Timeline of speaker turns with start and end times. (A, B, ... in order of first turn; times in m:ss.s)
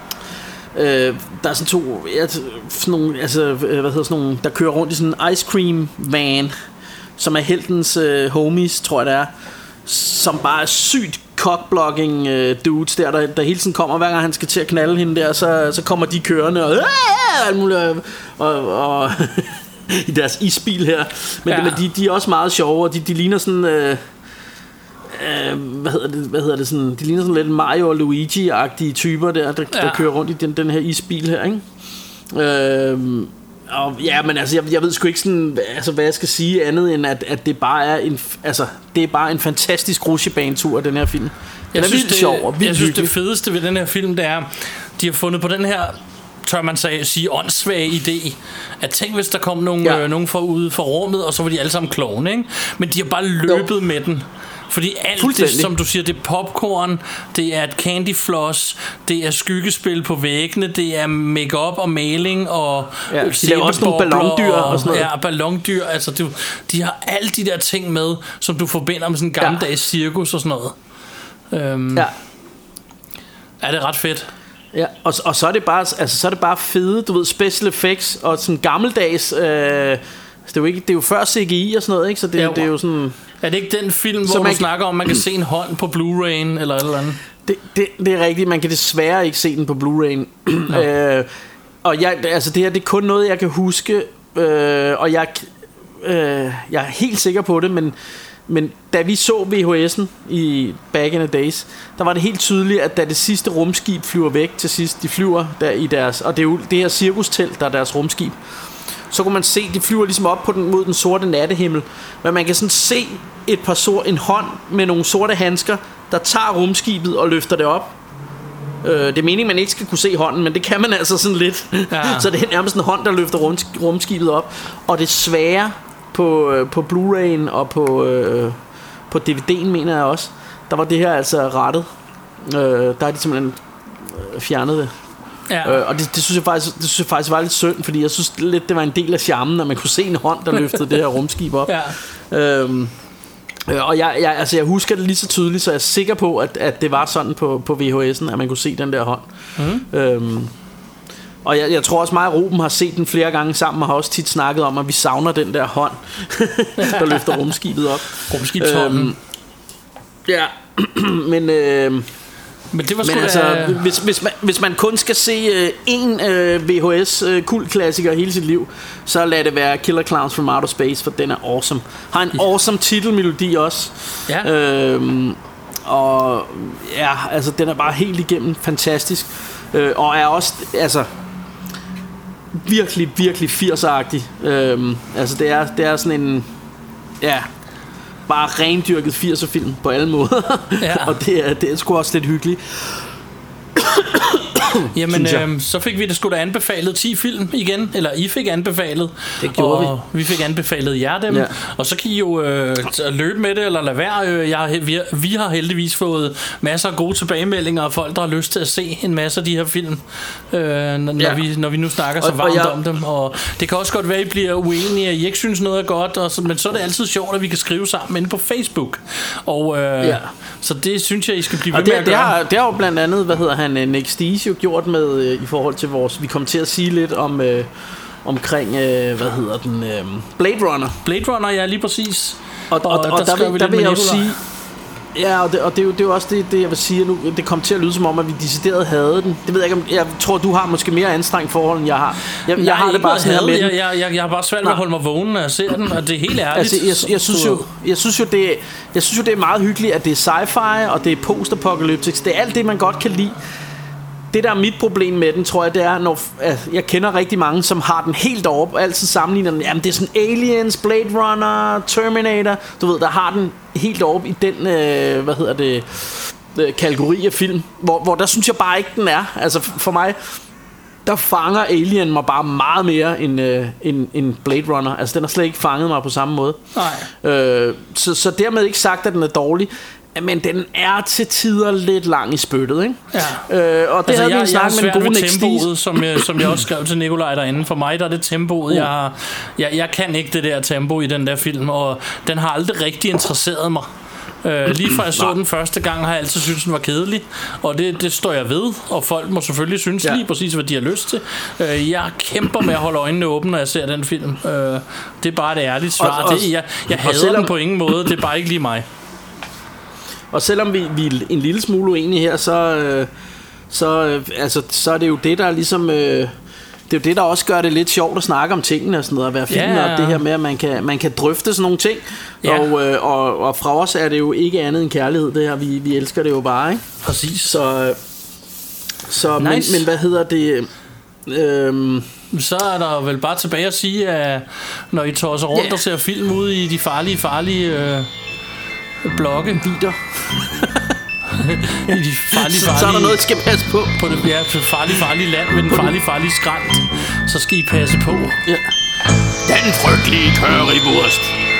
0:00.7-0:06.5 A
0:07.2-0:09.3 A
0:09.8-0:24.0 A
0:21.5-0:21.8 B
0:25.1-0:31.6 A
0:29.7-0:30.1 B
0:32.3-0:43.1 A
0:41.7-1:10.8 B
0:55.2-0:55.7 A
1:03.1-1:05.1 A
1:11.5-1:12.1 B
1:13.6-1:14.3 B
1:14.7-1:23.2 A
1:22.4-1:22.7 B
1:23.4-1:27.2 B
1:24.2-1:24.7 A
1:27.4-1:31.3 A
1:31.8-1:38.0 A
1:38.5-1:48.4 A
1:49.1-1:58.0 A
1:58.8-2:08.6 A
2:01.9-2:02.3 B
2:09.1-2:11.9 A
2:12.4-2:14.9 A
2:15.5-2:15.8 B
2:15.6-2:22.9 A
2:21.6-2:22.0 B
2:23.7-2:29.3 A
2:29.6-2:29.9 B
2:29.9-2:30.5 A
2:31.4-2:39.2 A
2:36.8-2:37.4 B
2:38.3-2:39.1 B
2:40.2-2:42.1 A
2:42.7-2:43.9 B
2:43.0-3:01.1 A
3:02.5-3:06.5 A
3:07.2-3:07.5 A
3:08.3-3:13.1 A
3:10.8-3:11.2 B
3:13.7-3:15.4 A
3:14.9-3:42.3 B
3:19.4-3:19.9 A
3:21.3-3:21.5 A
3:32.2-3:32.8 A
3:40.0-3:40.3 A
3:41.7-3:47.7 A
3:48.2-3:51.0 A
3:51.0-3:54.3 B
3:52.7-3:54.4 A
3:55.1-4:03.7 A
4:02.5-4:07.6 B
4:06.5-4:13.4 A
4:14.3-4:30.4 A
4:31.0-4:46.4 A
4:36.7-4:37.1 B
4:43.1-4:43.4 B
4:44.0-4:53.9 B
4:54.4-5:08.8 B
5:06.0-5:07.5 A
5:10.3-5:13.1 A
5:13.7-5:16.3 A
5:16.9-5:26.8 A
5:19.5-5:20.2 B
5:22.4-5:22.7 B
5:27.0-5:27.6 B
5:27.4-5:28.0 A
5:29.1-5:30.7 A
5:29.4-5:29.9 B
5:31.3-5:32.1 A
5:32.3-5:38.1 B
5:35.5-5:35.8 A
5:39.0-5:39.6 B
5:39.6-5:41.0 A
5:41.2-5:43.2 B
5:41.8-5:44.0 A
5:43.9-5:48.4 B
5:48.4-5:48.7 A
5:49.4-5:51.4 A